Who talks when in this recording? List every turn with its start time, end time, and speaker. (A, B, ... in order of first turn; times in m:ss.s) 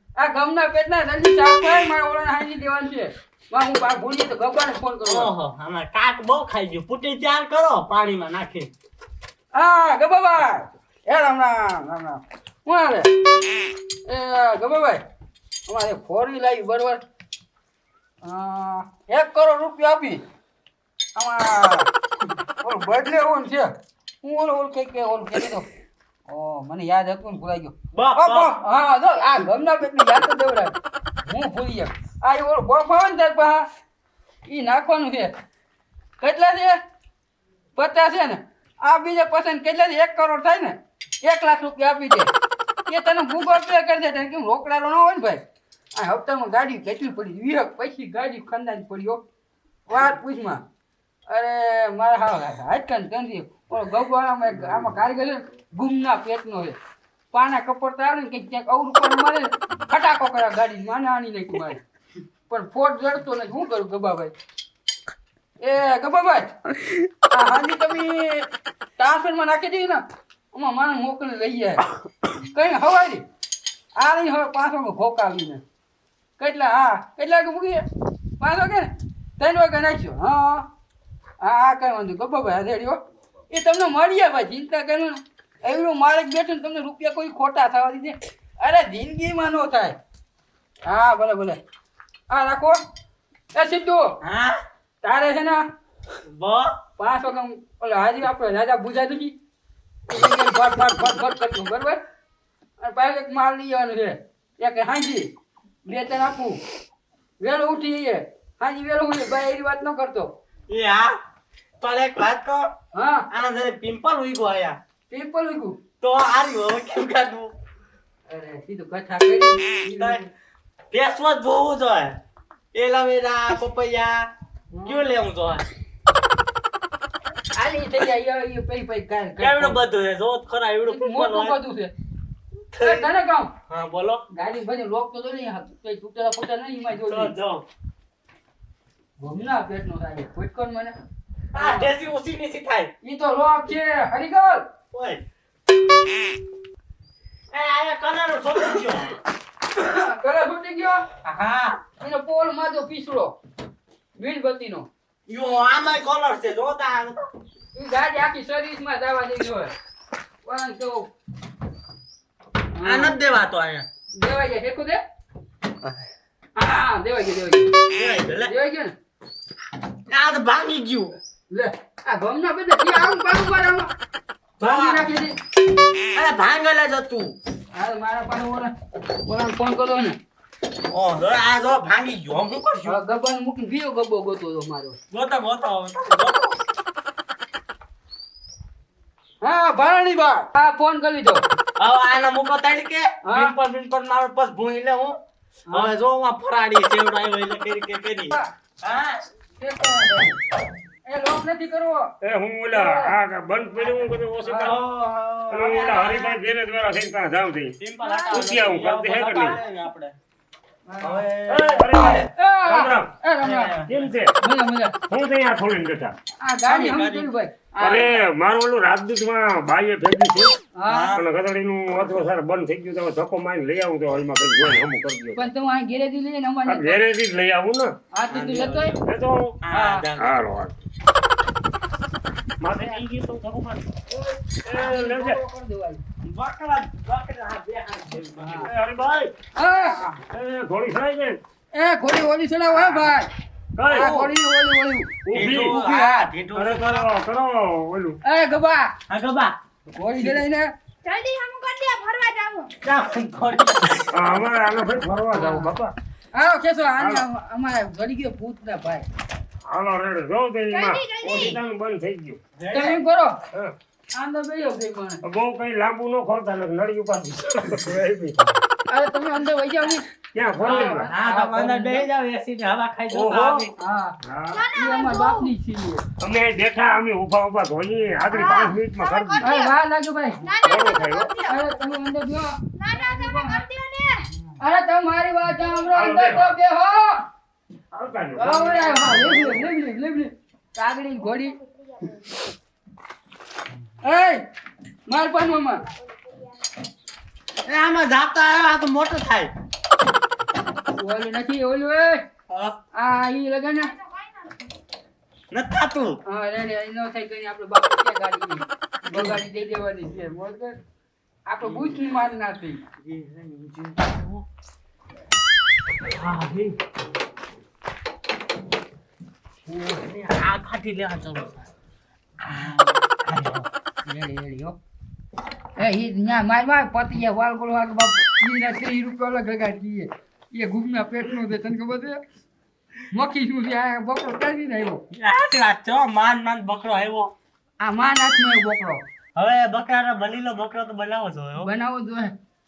0:00.2-0:05.3 A
0:05.0-0:08.7 B
0:09.5-0:13.1 A
0:14.0-0:15.0 A
0:15.7-0:17.0 A
0:18.2-0:20.2 A
0:21.2-0:21.9 A
0:22.6-0:23.7 A
0:24.2-0:25.7 A
0:26.3-0:33.6 A
0:27.9-0:28.5 B
0:34.4-0:35.3 A
0:36.2-0:36.8 A
0:37.8-0:42.3 A
0:42.9-0:45.4 A
0:45.9-0:49.2 A
0:49.9-0:50.6 A
0:51.3-0:56.8 A
0:57.3-1:01.8 A
1:02.5-1:04.3 A
1:05.6-1:06.5 A
1:07.3-1:11.8 A
1:12.3-1:13.2 A
1:13.9-1:15.6 A
1:16.4-1:17.8 A
1:18.4-1:20.6 A
1:21.4-1:23.0 A
1:23.5-1:30.0 A
1:30.8-1:31.6 A
1:32.3-1:32.8 A
1:33.5-1:34.1 A
1:34.2-1:34.6 B
1:35.0-1:35.6 A
1:36.2-1:36.7 B
1:37.0-1:39.3 A
1:40.1-1:42.0 A
1:42.8-1:45.3 A
1:45.8-1:46.6 A
1:47.4-1:50.3 A
1:50.7-1:51.1 B
1:51.8-1:52.7 B
1:52.9-1:53.3 A
1:53.3-1:54.8 B
1:55.1-1:55.8 A
1:56.0-1:57.5 B
1:58.3-2:00.2 A
1:59.9-2:00.2 B
2:00.9-2:02.2 B
2:02.7-2:04.3 B
2:04.7-2:05.0 A
2:04.8-2:05.7 B
2:07.5-2:09.8 A
2:09.4-2:11.6 B
2:10.8-2:11.9 A
2:12.7-2:13.1 B
2:12.8-2:13.5 A
2:13.7-2:14.2 B
2:14.3-2:17.3 A
2:17.0-2:17.6 B
2:19.2-2:20.9 A
2:21.5-2:22.9 B
2:21.5-2:21.9 A
2:23.0-2:24.6 A
2:24.9-2:25.2 B
2:27.5-2:29.2 B
2:29.8-2:31.0 A
2:31.2-2:31.8 B
2:32.0-2:33.3 A
2:34.2-2:34.9 A
2:35.3-2:37.2 B
2:37.7-2:39.7 A
2:40.4-2:41.1 A
2:42.7-2:43.2 A
2:42.8-2:43.8 B
2:44.1-2:45.0 A
2:46.6-2:47.7 A
2:47.9-2:48.5 B
2:48.4-2:48.9 A
2:50.1-2:51.2 B
2:51.5-2:53.9 A
2:54.6-2:55.0 B
2:54.6-2:55.3 A
2:56.1-2:57.4 B
2:57.7-2:58.7 A
2:59.2-3:00.2 A
3:00.8-3:03.0 B
3:02.8-3:05.0 A
3:05.1-3:06.6 B
3:09.4-3:11.4 A
3:11.8-3:15.2 B
3:13.2-3:13.5 A
3:15.7-3:19.2 B
3:19.6-3:20.4 A
3:21.1-3:22.1 A
3:22.2-3:24.8 C
3:22.7-3:23.1 A
3:24.4-3:24.7 A
3:24.6-3:26.4 B
3:25.5-3:27.7 C
3:27.8-3:30.1 B
3:28.0-3:28.4 A
3:28.3-3:29.6 C
3:30.9-3:31.2 A
3:31.0-3:32.2 B
3:31.5-3:33.1 C
3:32.2-3:33.7 A
3:33.4-3:34.1 B
3:33.9-3:34.3 C
3:34.4-3:34.9 A
3:35.1-3:36.1 C
3:36.4-3:37.5 A
3:36.6-3:38.2 B
3:37.8-3:40.6 C
3:40.8-3:41.1 A
3:40.9-3:41.2 B
3:41.1-3:45.4 C
3:45.4-3:47.0 A
3:46.7-3:47.9 C
3:48.1-3:48.9 A
3:48.3-3:49.0 B
3:49.0-3:49.6 C
3:49.6-3:50.4 B
3:49.7-3:50.0 A
3:50.2-3:50.7 C
3:52.6-3:53.8 C
3:54.6-3:55.4 C
3:54.7-3:56.0 A
3:56.2-3:58.7 B
3:58.4-3:58.7 A
3:58.6-3:59.3 C
3:59.6-4:00.0 A
4:00.3-4:01.4 C
4:01.7-4:03.3 A
4:03.8-4:04.1 C
4:03.9-4:05.1 A
4:03.9-4:04.3 B
4:05.2-4:05.8 C
4:05.3-4:07.1 B
4:05.6-4:06.3 A
4:06.5-4:08.2 C
4:08.2-4:08.9 A
4:09.1-4:09.6 B
4:09.9-4:10.7 A
4:10.2-4:10.4 B
4:11.0-4:12.7 D
4:12.8-4:14.4 B
4:14.1-4:15.9 C
4:15.3-4:15.7 A
4:16.3-4:19.0 A
4:17.0-4:17.2 C
4:19.7-4:22.4 C
4:20.7-4:21.6 D
4:22.6-4:23.0 B
4:22.7-4:23.4 A
4:24.1-4:25.2 A
4:25.2-4:28.6 C
4:28.9-4:30.0 A
4:30.3-4:31.1 C
4:30.6-4:32.0 A
4:30.6-4:33.7 B
4:33.1-4:33.7 C
4:33.8-4:34.1 A
4:34.2-4:34.6 C
4:34.5-4:35.5 D
4:34.7-4:36.0 A
4:36.2-4:39.5 C
4:38.3-4:39.7 D
4:39.4-4:40.4 A
4:40.4-4:41.6 D
4:40.6-4:41.3 C
4:41.4-4:43.6 A
4:42.8-4:44.3 D
4:44.6-4:47.2 A
4:45.9-4:46.5 C
4:47.9-4:49.6 C
4:48.4-4:51.6 A
4:51.3-4:52.3 D
4:54.0-4:54.4 A
4:55.1-4:55.8 A
4:55.9-4:56.8 D
4:57.7-4:59.5 B
5:00.9-5:02.2 A
5:02.5-5:02.8 B
5:02.9-5:03.9 A
5:04.0-5:04.6 D
5:05.5-5:06.2 B
5:06.3-5:10.8 A
5:09.1-5:09.4 B
5:11.5-5:12.8 A
5:11.6-5:12.0 B
5:13.0-5:14.4 B
5:16.1-5:16.8 B
5:19.6-5:21.7 B
5:22.4-5:23.7 B
5:24.0-5:24.8 A
5:25.8-5:32.2 A
5:33.1-5:35.0 A
5:35.1-5:37.3 B
5:37.8-5:39.0 A
5:39.4-5:41.7 B
5:41.6-5:42.3 A